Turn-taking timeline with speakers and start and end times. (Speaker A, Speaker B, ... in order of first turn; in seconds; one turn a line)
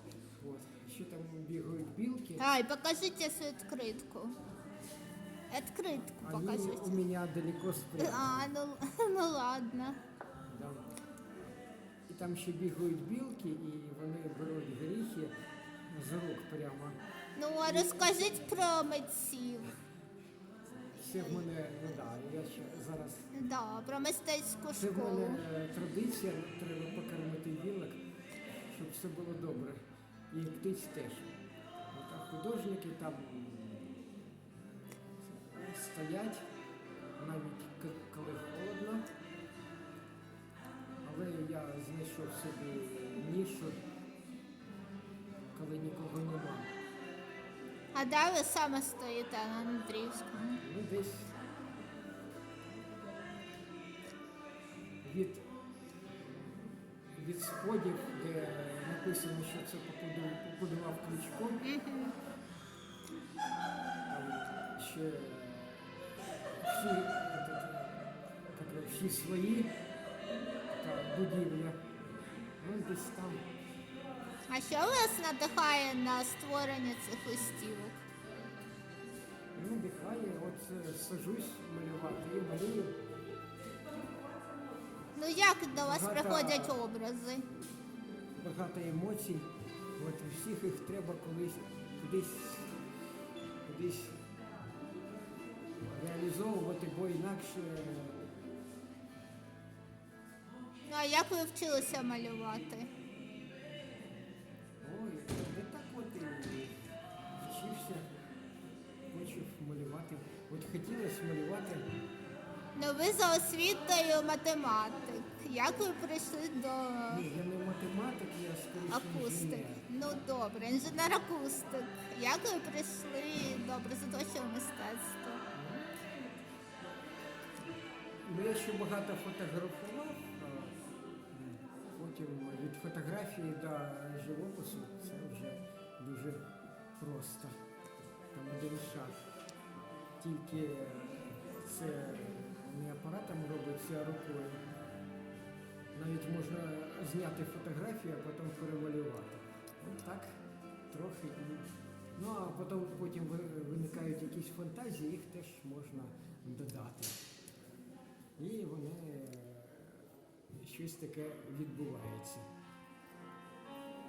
Speaker A: 0.2-2.5
Speaker B: 2.4-4.3
Speaker B: 5.5-7.0
Speaker A: 6.2-8.5
Speaker B: 8.0-10.0
Speaker A: 10.5-10.8
Speaker A: 12.1-15.3
Speaker A: 15.9-17.0
Speaker B: 17.4-19.7
Speaker A: 17.6-18.4
Speaker A: 21.0-23.3
Speaker B: 23.3-25.4
Speaker A: 24.7-28.0
Speaker A: 28.7-29.8
Speaker A: 30.3-31.4
Speaker A: 31.9-34.0
Speaker A: 35.2-36.4
Speaker A: 37.2-39.1
Speaker A: 41.0-43.8
Speaker A: 45.5-46.7
Speaker B: 47.9-50.6
Speaker A: 50.6-51.3
Speaker A: 55.0-55.5
Speaker A: 57.1-61.7
Speaker B: 61.6-62.1
Speaker A: 64.1-65.8
Speaker A: 66.6-69.7
Speaker A: 70.7-71.8
Speaker A: 72.6-73.5
Speaker B: 74.5-78.0
Speaker A: 79.5-83.0
Speaker B: 85.1-87.5
Speaker A: 85.8-86.8
Speaker A: 88.4-92.8
Speaker A: 93.7-94.2
Speaker A: 95.8-98.3
Speaker B: 100.9-102.9
Speaker A: 104.8-106.8
Speaker A: 107.4-108.1
Speaker A: 109.1-111.9
Speaker B: 112.8-117.2
Speaker A: 117.1-119.8
Speaker B: 118.9-125.4
Speaker A: 125.5-125.9
Speaker A: 128.2-130.8
Speaker A: 131.3-136.5
Speaker A: 137.0-137.6
Speaker A: 138.3-139.2
Speaker A: 140.2-144.6
Speaker A: 145.9-150.3
Speaker A: 150.9-157.2
Speaker A: 158.4-162.4